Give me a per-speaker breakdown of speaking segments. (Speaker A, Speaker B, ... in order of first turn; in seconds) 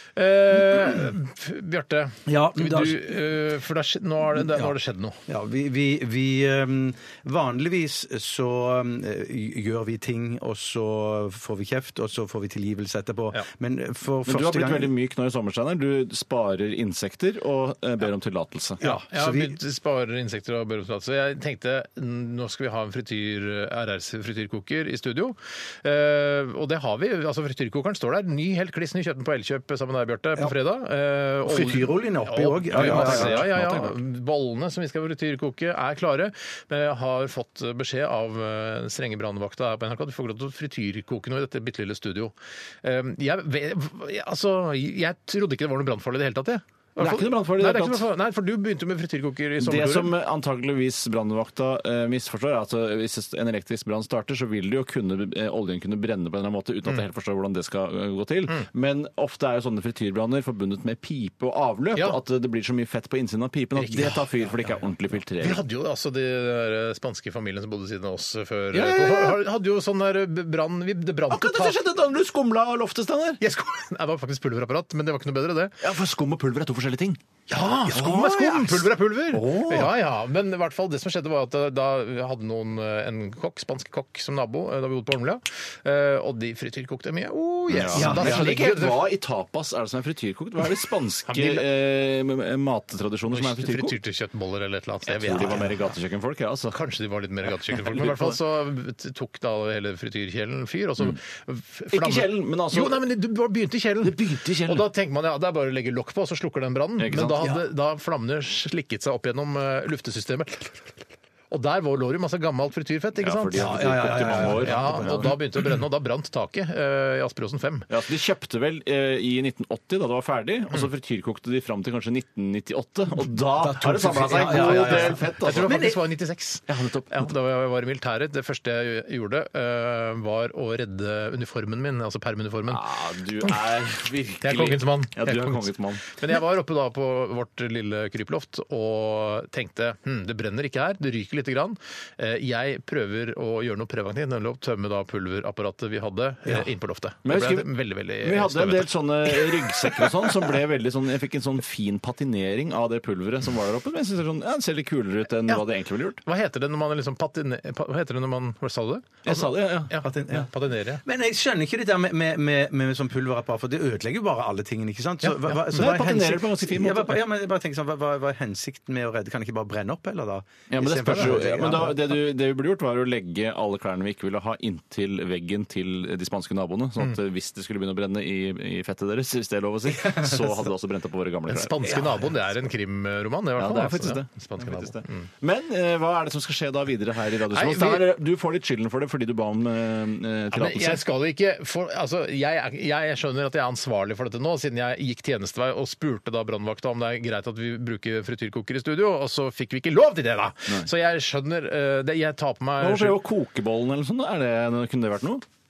Speaker A: 0.1-5.2, 18.8-50.1, 63.8-64.3, 65.4-71.8, 73.4-75.7, 77.5-89.0, 91.3-91.6, 93.3-95.7, 96.7-110.8, 111.5-117.9, 124.3-132.8, 134.4-150.1, 156.2-161.0, 181.5-185.3, 187.5-188.1, 190.5-203.2
Speaker B: 2.2-3.1, 4.4-4.7, 5.3-14.9, 18.8-19.6, 31.4-33.8, 87.9-88.5, 95.4-95.7, 113.5-115.4, 123.6-126.0, 160.0-160.5, 161.0-172.2, 181.8-182.2
Speaker C: 14.2-18.8, 32.7-33.9, 47.0-48.1, 49.6-65.6, 68.7-69.4, 71.3-73.4, 75.8-77.2, 77.9-79.9, 87.7-94.0, 95.1-96.8, 97.7-98.4, 101.9-103.0, 104.0-104.8, 107.0-107.5, 113.2-115.4, 117.9-125.9, 126.7-127.3, 132.7-136.0, 147.2-156.2, 159.2-159.9, 165.7-167.2, 170.7-181.9, 183.6-191.0, 202.8-205.4